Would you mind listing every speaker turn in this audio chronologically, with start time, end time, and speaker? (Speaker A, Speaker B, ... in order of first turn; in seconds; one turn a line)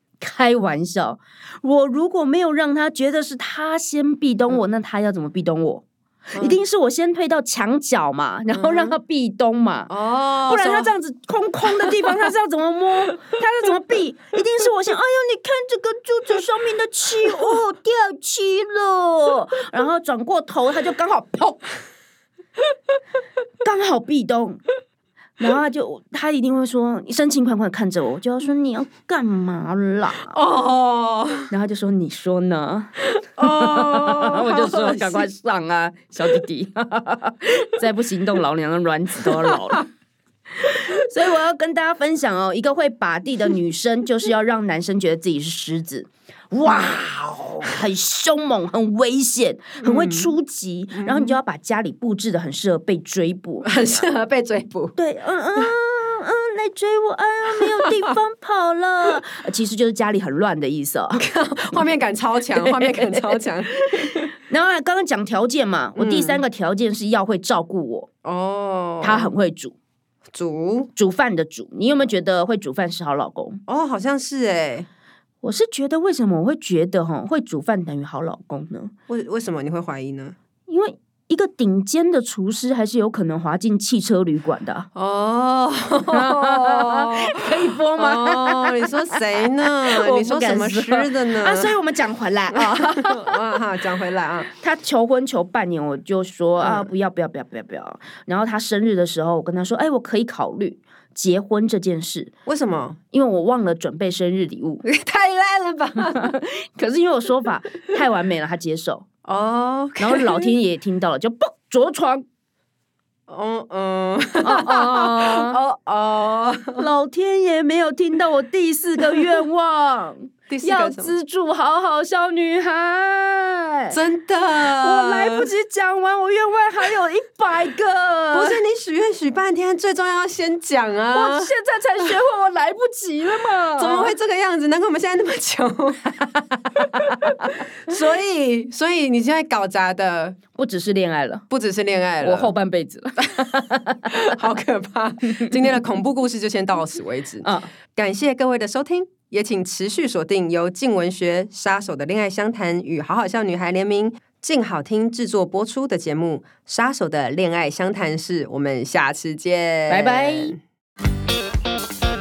Speaker A: 0.2-9.9
Speaker B: 6.3-6.6
Speaker B: 8.5-9.0
Speaker B: 9.9-10.9
Speaker A: 10.5-21.6
Speaker B: 11.7-12.3
Speaker A: 23.6-24.6
Speaker A: 25.4-30.4
Speaker B: 30.2-31.5
Speaker A: 31.5-39.8
Speaker B: 33.3-35.3
Speaker A: 40.6-54.0
Speaker B: 49.8-50.3
Speaker B: 50.9-51.4
Speaker B: 53.6-55.0
Speaker A: 55.0-61.9
Speaker B: 61.1-64.3
Speaker A: 62.5-68.1
Speaker B: 66.0-66.4
Speaker B: 68.2-69.3
Speaker A: 69.0-69.7
Speaker B: 70.3-70.9
Speaker A: 71.0-73.6
Speaker B: 73.7-74.8
Speaker A: 75.4-78.9
Speaker B: 79.1-80.3
Speaker A: 80.7-84.9
Speaker B: 84.9-91.8
Speaker A: 86.1-88.9
Speaker A: 89.9-93.3
Speaker B: 92.5-94.5
Speaker A: 94.5-102.3
Speaker B: 96.6-96.9
Speaker B: 102.5-103.0
Speaker A: 103.1-104.8
Speaker B: 104.8-106.3
Speaker A: 106.0-109.0
Speaker B: 109.2-110.5
Speaker A: 110.0-112.2
Speaker B: 113.3-116.8
Speaker A: 114.4-115.6
Speaker A: 116.8-123.9
Speaker B: 120.5-121.1
Speaker B: 123.9-125.5
Speaker A: 124.6-128.6
Speaker B: 128.3-131.5
Speaker A: 131.1-134.1
Speaker B: 133.8-136.1
Speaker B: 136.9-137.3
Speaker A: 137.1-137.6
Speaker B: 137.8-140.4
Speaker A: 140.6-141.4
Speaker B: 141.5-142.5
Speaker A: 142.2-144.1
Speaker B: 144.0-160.6
Speaker A: 147.4-147.7
Speaker A: 159.9-160.5